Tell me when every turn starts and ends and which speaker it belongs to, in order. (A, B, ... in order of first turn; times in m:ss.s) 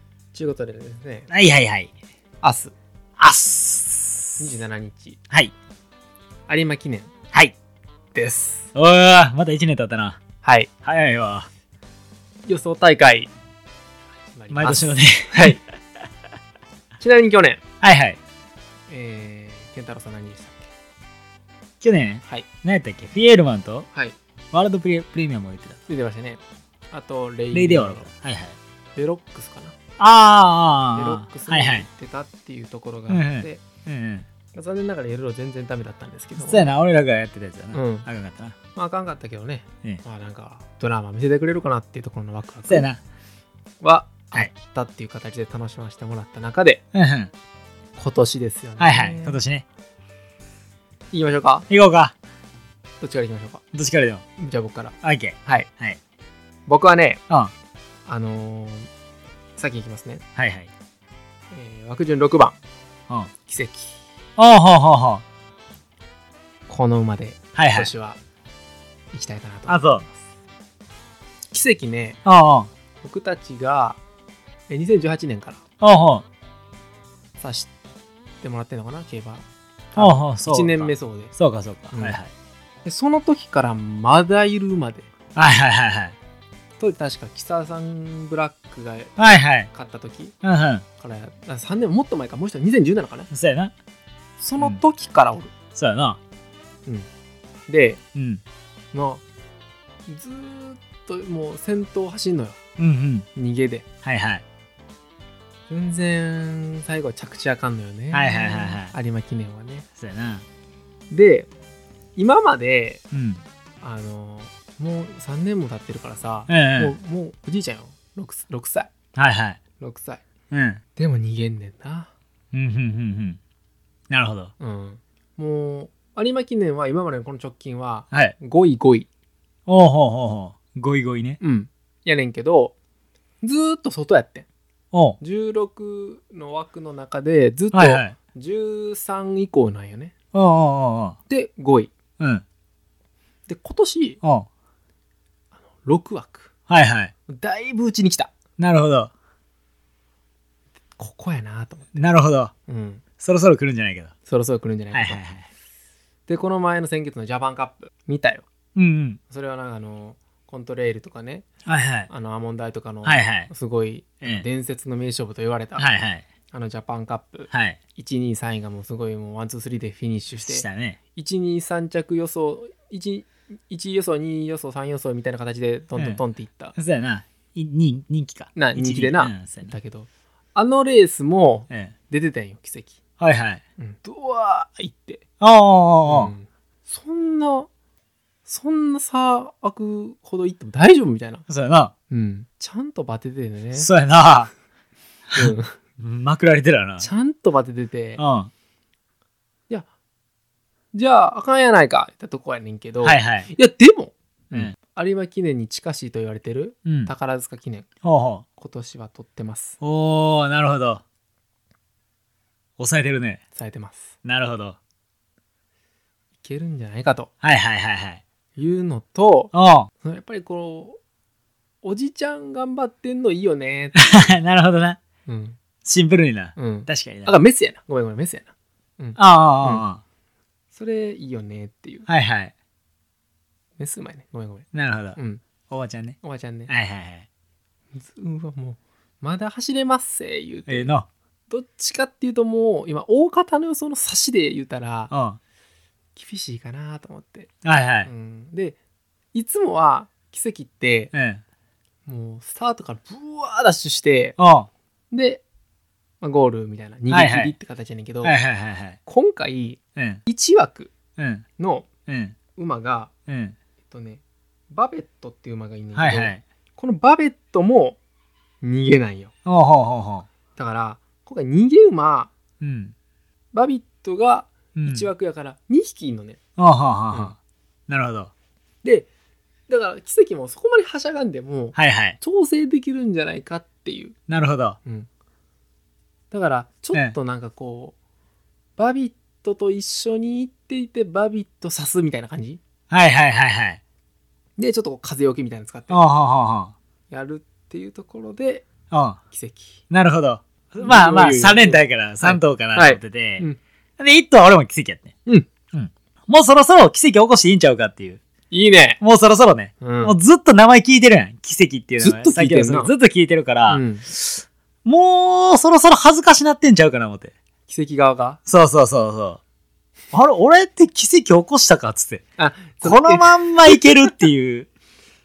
0:00.3-0:01.3 A
0:01.3-0:01.9 B
0:02.4-0:02.7 A
0:03.2-0:04.5 B
0:04.4-0:05.2 A
0:06.5-0:07.1 A
0:08.1-0:08.7 A
0:08.7-0:10.2 B
0:10.4-0:10.7 A
0:10.8-0:11.5 B
0:12.5-0:13.3 A
0:14.2-0:15.6 A
0:14.5-0:15.6 B
0:17.0-0:17.6 A
0:17.8-0:18.2 B
0:18.9-0:20.7 A
0:21.8-0:23.9 B
0:24.5-0:25.8 B
0:25.9-0:28.1 A
0:27.5-0:28.6 B
0:29.0-0:29.8 A
0:30.0-0:31.9 B
0:30.9-0:33.6 A
0:33.1-0:34.3 B
0:34.5-0:36.7 A
0:36.4-0:38.6 B
0:37.7-0:38.1 A
0:38.7-0:42.9 A
0:42.7-0:43.0 B
0:43.8-0:46.8 A
0:46.9-0:47.3 B
0:48.0-0:49.4 A
0:48.8-0:49.6 B
0:51.1-0:51.7 A
0:51.7-0:52.1 B
0:53.0-0:53.6 A
0:53.7-0:54.2 B
0:54.4-0:55.7 A
0:55.0-0:56.0 B
0:56.7-0:57.2 A
0:58.1-0:58.9 A
0:59.6-1:00.2 A
1:00.4-1:00.7 B
1:01.5-1:02.6 A
1:03.5-1:04.0 A
1:04.4-1:05.2 B
1:06.7-1:08.2 A
1:07.6-1:07.9 B
1:09.1-1:10.2 A
1:09.7-1:10.0 B
1:11.5-1:12.2 A
1:12.2-1:12.7 B
1:13.0-1:14.0 A
1:14.7-1:15.6 A
1:15.8-1:16.2 B
1:17.4-1:17.7 A
1:18.4-1:21.3 A
1:20.0-1:22.3 B
1:21.9-1:22.2 A
1:22.8-1:25.1 A
1:25.4-1:26.2 B
1:26.8-1:29.1 A
1:29.2-1:29.7 B
1:29.7-1:30.4 A
1:30.4-1:30.8 B
1:31.0-1:33.3 A
1:33.3-1:33.7 B
1:34.4-1:35.5 A
1:35.8-1:36.2 B
1:37.7-1:38.0 A
1:38.2-1:38.4 B
1:38.9-1:39.2 A
1:40.1-1:42.6 A
1:42.8-1:43.3 B
1:43.4-1:43.8 A
1:44.0-1:44.4 B
1:45.7-1:49.9 A
1:48.1-1:48.9 B
1:50.0-1:50.4 B
1:51.1-1:51.5 A
1:52.2-1:53.0 A
1:53.1-1:53.4 B
1:53.8-1:58.9 A
1:56.5-1:56.9 B
1:59.2-1:59.6 B
1:59.8-2:00.2 A
2:00.5-2:00.8 B
2:01.0-2:02.1 A
2:02.5-2:03.4 B
2:04.1-2:04.5 B
2:04.6-2:09.1 A
2:09.7-2:11.4 B
2:11.4-2:12.7 A
2:13.4-2:14.5 A
2:14.9-2:15.2 B
2:15.2-2:20.1 A
2:17.7-2:18.1 B
2:20.3-2:21.2 B
2:21.3-2:21.9 A
2:22.2-2:22.4 B
2:23.5-2:24.2 A
2:25.6-2:26.5 A
2:26.7-2:27.1 B
2:27.3-2:28.3 A
2:28.6-2:29.1 B
2:31.0-2:32.0 A
2:32.0-2:32.5 B
2:32.7-2:33.0 A
2:33.2-2:34.1 B
2:34.3-2:35.2 A
2:34.9-2:35.5 B
2:36.3-2:38.4 A
2:38.8-2:39.2 B
2:39.3-2:41.4 A
2:41.7-2:42.1 B
2:42.1-2:45.9 A
2:43.0-2:43.5 B
2:45.8-2:46.2 B
2:46.5-2:56.7 A
2:47.5-2:47.8 B
2:50.4-2:51.0 B
2:56.8-2:59.7 B
2:58.6-3:03.0 A
3:03.2-3:03.6 B
3:03.8-3:05.2 A
3:05.4-3:06.3 B
3:06.1-3:07.7 A
3:08.5-3:11.4 A
3:11.5-3:11.9 B
3:12.1-3:13.9 A
3:13.8-3:14.5 B
3:15.3-3:17.1 B
3:15.4-3:15.8 A
3:17.0-3:18.2 A
3:18.2-3:18.5 B
3:20.9-3:27.9 A
3:23.0-3:23.5 B
3:26.9-3:27.1 B
3:28.0-3:28.4 B
3:28.6-3:29.8 A
3:29.8-3:31.0 B
3:32.8-3:33.4 B
3:33.6-3:34.1 A
3:34.2-3:34.8 B
3:36.4-3:37.3 A
3:37.4-3:38.2 B
3:38.6-3:41.0 A
3:39.5-3:39.9 B
3:41.8-3:44.0 A
3:44.0-3:45.0 B
3:45.3-3:45.6 A
3:45.8-3:47.3 B
3:46.6-3:49.8 A
3:49.2-3:50.0 B
3:50.7-3:52.1 A
3:52.1-3:52.5 B
3:53.8-3:55.4 A
3:54.7-3:55.2 B
3:55.7-3:57.3 B
3:56.2-3:56.7 A
3:57.9-4:00.9 A
4:00.7-4:01.1 B
4:01.5-4:05.1 A
4:05.1-4:05.4 B
4:06.2-4:07.5 A
4:07.6-4:08.1 B
4:08.0-4:08.8 A
4:09.3-4:11.1 A
4:11.1-4:11.4 B
4:12.1-4:14.4 A
4:14.4-4:14.7 B
4:15.1-4:15.4 A
4:16.2-4:18.4 A
4:17.1-4:17.5 B
4:18.2-4:19.0 B
4:19.1-4:20.9 A
4:20.0-4:20.2 B
4:21.2-4:21.4 B
4:21.6-4:21.9 A
4:22.1-4:22.4 B
4:22.6-4:23.1 A
4:23.3-4:23.6 B
4:23.9-4:28.0 A
4:25.9-4:26.4 B
4:28.6-4:29.3 A
4:29.4-4:30.3 B
4:30.6-4:32.3 A
4:32.6-4:32.9 B
4:33.5-4:36.4 A
4:34.8-4:35.1 B
4:36.6-4:37.4 B
4:37.9-4:38.3 B
4:39.7-4:44.1 A
4:41.8-4:42.2 B
4:44.3-4:44.8 B
4:46.3-4:48.0 A
4:48.8-4:52.6 A
4:52.9-4:53.8 B
4:54.6-4:56.0 A
4:55.9-4:56.7 B
4:57.1-4:58.7 A
4:58.9-4:59.2 B
4:59.3-4:59.8 A
4:59.9-5:03.4 B
5:00.8-5:03.6 A
5:04.0-5:05.1 B
5:05.7-5:08.2 B
5:08.5-5:09.0 A
5:09.0-5:17.3 B
5:09.8-5:10.2 A
5:12.0-5:12.9 A
5:13.7-5:14.1 A
5:17.7-5:18.4 A
5:18.5-5:19.4 B
5:20.1-5:22.2 B
5:22.4-5:24.1 A
5:22.8-5:24.7 B